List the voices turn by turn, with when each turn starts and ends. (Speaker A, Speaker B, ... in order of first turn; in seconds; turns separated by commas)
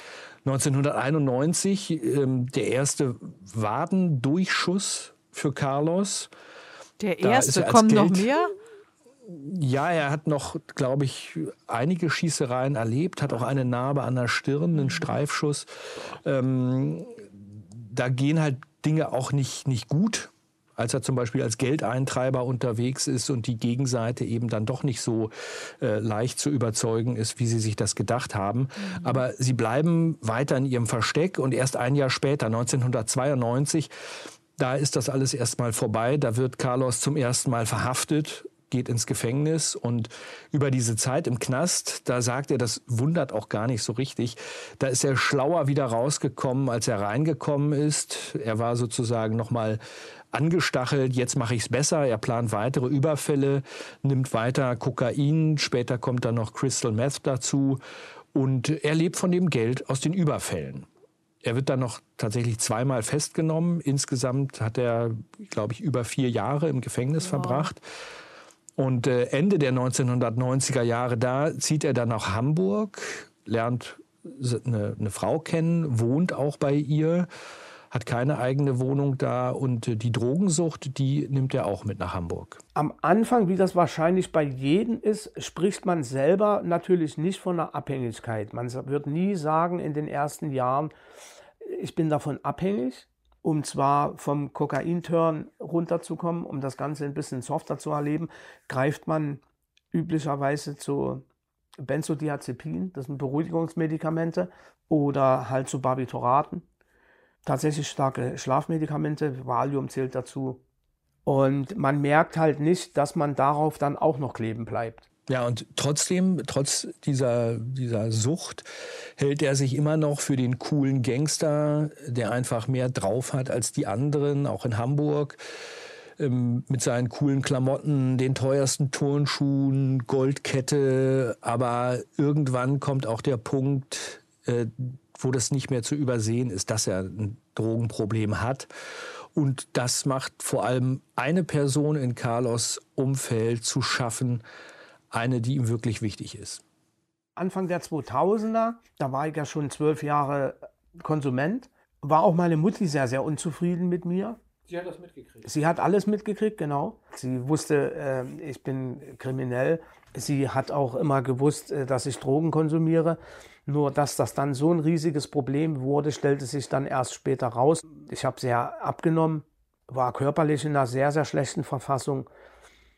Speaker A: 0.4-6.3, Speaker B: 7.0-8.6, Speaker A: 7.2-8.3, Speaker A: 9.3-33.9, Speaker B: 28.8-29.2, Speaker A: 34.6-49.8, Speaker A: 50.3-57.8, Speaker A: 58.3-60.9, Speaker A: 61.4-67.8, Speaker B: 67.2-67.7, Speaker A: 68.8-77.3, Speaker A: 77.9-82.6, Speaker C: 82.7-90.9, Speaker C: 91.6-99.4, Speaker C: 99.9-101.2, Speaker C: 101.8-106.6, Speaker C: 107.4-110.6, Speaker C: 111.2-115.1, Speaker A: 115.3-125.4, Speaker A: 126.2-138.7, Speaker A: 139.3-144.4, Speaker A: 145.1-146.6, Speaker C: 147.3-154.4, Speaker A: 154.7-155.4, Speaker C: 155.4-172.3